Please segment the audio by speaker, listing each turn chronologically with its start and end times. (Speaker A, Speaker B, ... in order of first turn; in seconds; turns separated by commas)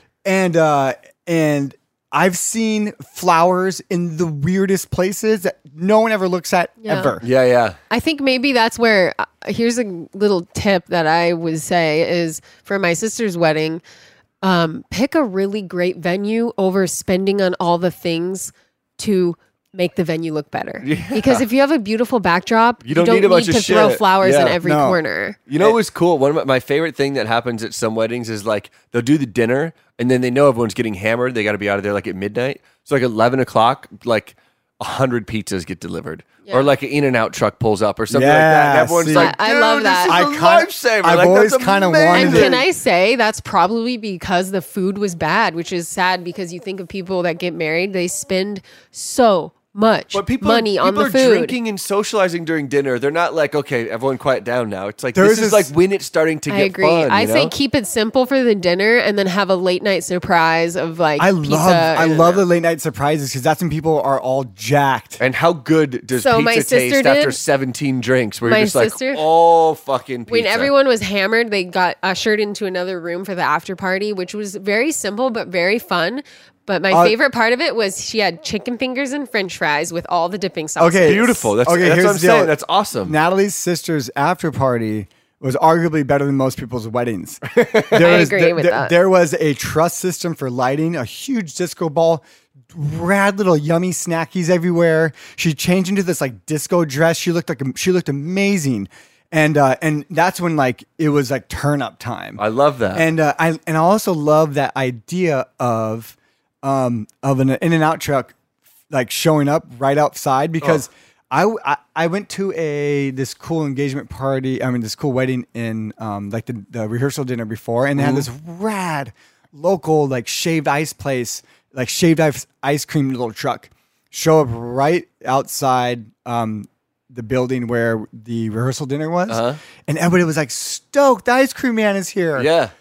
Speaker A: 0.2-7.2, Speaker B: 6.8-7.2, Speaker C: 7.2-7.8, Speaker B: 7.9-13.8, Speaker B: 14.4-25.4, Speaker C: 20.8-21.4, Speaker C: 22.8-24.6, Speaker A: 24.6-25.0, Speaker C: 25.5-42.6, Speaker A: 38.1-39.3, Speaker B: 39.1-40.2, Speaker A: 40.0-42.6, Speaker B: 42.1-51.6, Speaker C: 50.1-57.5, Speaker A: 55.1-55.7, Speaker B: 56.5-62.1, Speaker A: 61.2-65.2, Speaker C: 62.0-62.4, Speaker C: 65.2-70.7, Speaker B: 66.2-67.4, Speaker B: 68.5-69.2, Speaker B: 70.3-81.4, Speaker A: 76.9-77.2, Speaker A: 80.8-102.4, Speaker C: 81.0-83.2, Speaker C: 87.5-88.2, Speaker B: 88.0-89.0, Speaker C: 102.4-103.1, Speaker A: 102.9-108.3, Speaker A: 108.9-132.5, Speaker C: 118.0-118.3, Speaker C: 129.3-129.6, Speaker C: 132.4-132.7